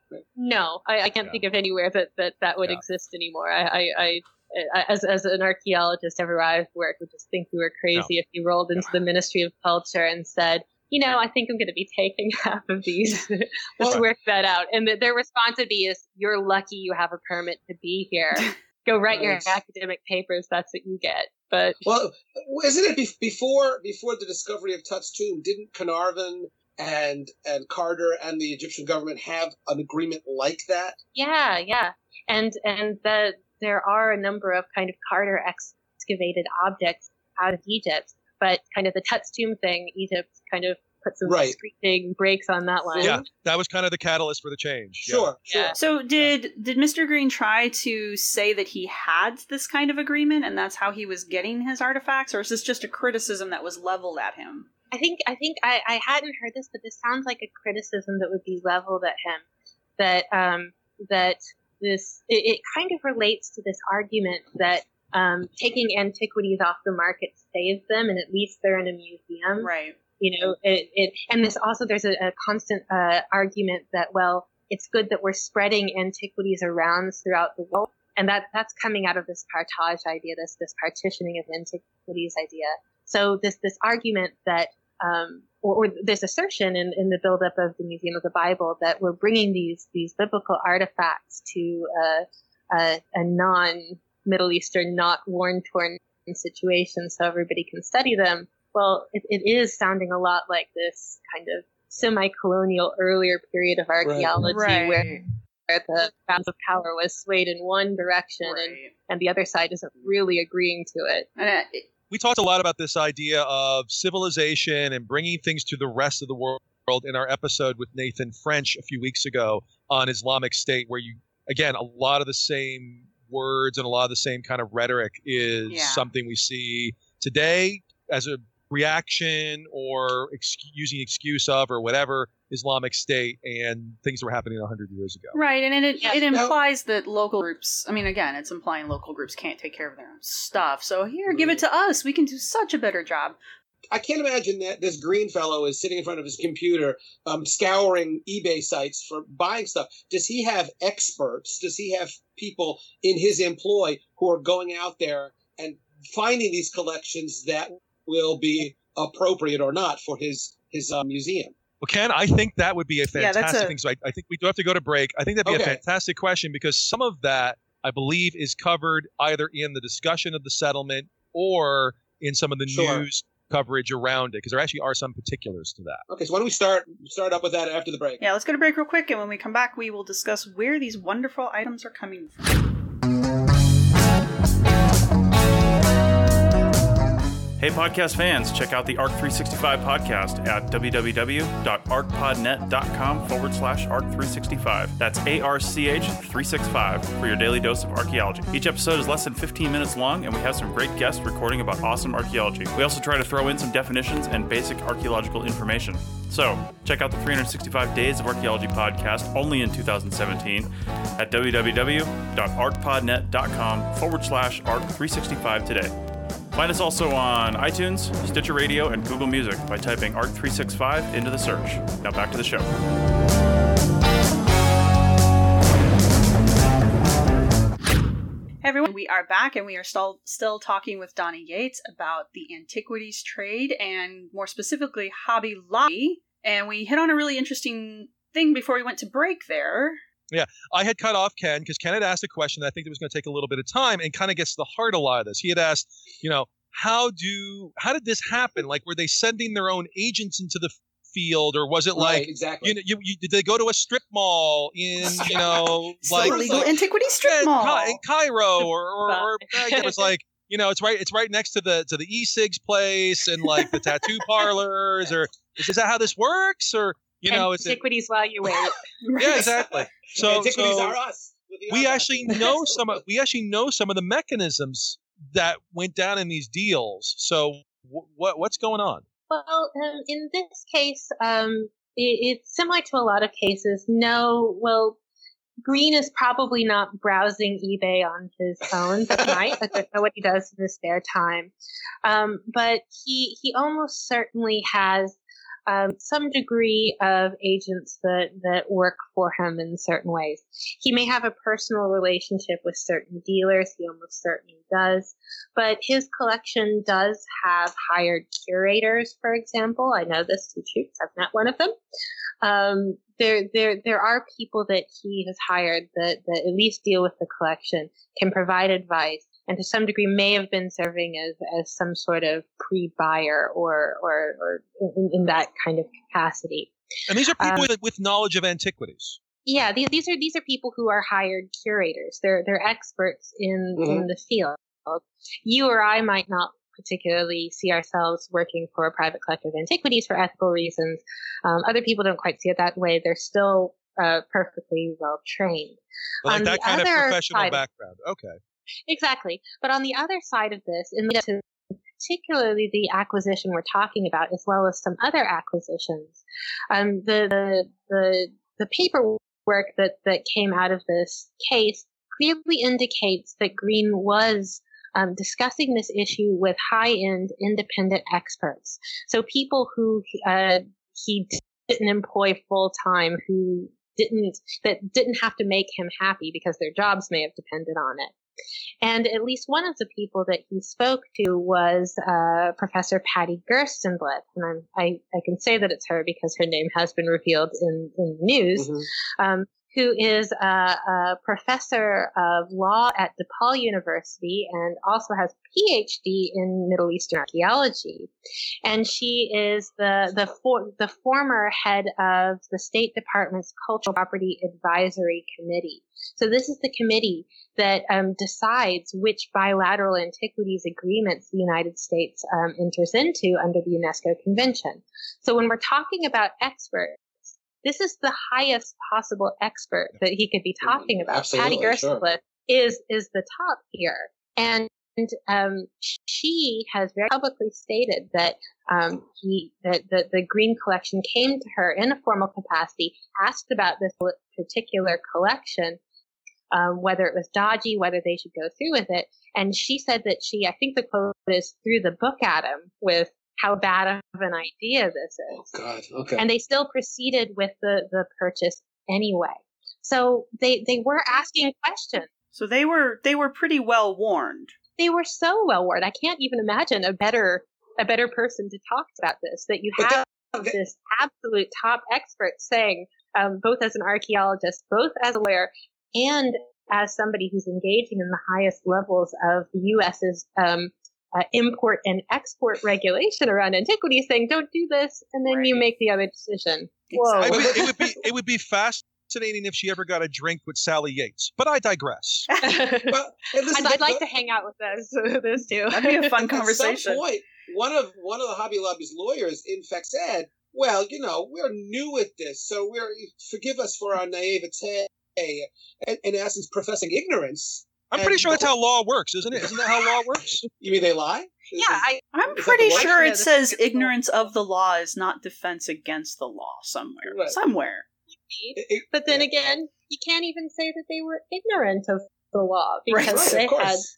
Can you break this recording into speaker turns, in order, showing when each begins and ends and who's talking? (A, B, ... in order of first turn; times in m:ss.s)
0:00.4-0:21.8 A
0:19.1-0:19.6 B
0:21.8-0:31.0 B
0:31.1-0:43.2 A
0:41.2-0:41.6 B
0:43.0-0:45.3 C
0:45.0-0:45.8 B
0:45.5-0:45.8 A
0:45.8-0:54.7 D
0:54.9-0:59.4 A
1:00.0-1:51.3 A
1:09.6-1:10.0 D
1:44.0-1:44.4 B
1:44.4-1:45.2 D
1:48.4-1:48.9 D
1:51.4-1:51.9 D
1:52.1-2:15.4 C
2:05.7-2:06.0 D
2:15.3-2:23.4 D
2:16.3-2:16.6 B
2:21.3-2:21.6 B
2:23.9-2:41.5 B
2:41.8-2:56.0 C
2:43.1-2:43.8 D
2:45.4-2:45.8 B
2:52.7-2:53.0 B
2:56.1-2:58.2 B
2:58.2-3:02.5 D
3:07.6-3:36.0 E
3:36.5-3:42.7 E
3:48.6-4:00.0 D
4:00.3-4:27.8 C
4:11.9-4:12.8 B
4:15.0-4:15.4 D
4:15.1-4:16.8 B
4:16.0-4:18.0 D
4:19.0-4:20.1 A
4:27.3-4:28.8 A
4:29.0-4:29.7 D
4:29.2-4:31.0 C
4:30.1-4:33.0 B
4:31.7-4:39.0 C
4:39.3-4:45.0 A
4:45.6-4:51.5 A
4:52.0-5:11.7 A
5:12.4-5:26.7 A
5:27.1-5:29.2 C
5:27.4-5:27.7 A
5:29.4-5:47.6 A
5:33.8-5:34.1 B
5:46.2-5:48.4 C
5:48.9-5:51.4 A
5:52.0-6:18.1 A
6:18.8-6:38.1 A
6:28.6-6:28.9 B
6:38.6-7:15.8 A
7:00.6-7:02.0 B
7:16.5-7:25.5 A
7:25.3-7:26.2 B
7:26.2-7:32.1 A
7:32.3-7:34.5 D
7:34.8-7:57.7 A
7:39.8-7:40.5 B
7:55.3-7:55.6 D
7:56.9-7:57.5 D
7:57.2-8:02.3 C
7:57.3-7:57.7 B
8:02.3-8:02.6 D
8:02.4-8:03.0 A
8:02.9-8:04.0 B
8:03.5-8:06.1 A
8:05.7-8:07.0 D
8:06.2-8:18.5 B
8:17.9-8:20.5 C
8:19.3-8:22.9 B
8:21.5-8:23.9 A
8:22.1-8:27.8 D
8:27.0-8:27.4 B
8:28.3-8:33.9 A
8:28.6-8:29.5 B
8:32.9-8:33.4 D
8:33.0-8:33.9 B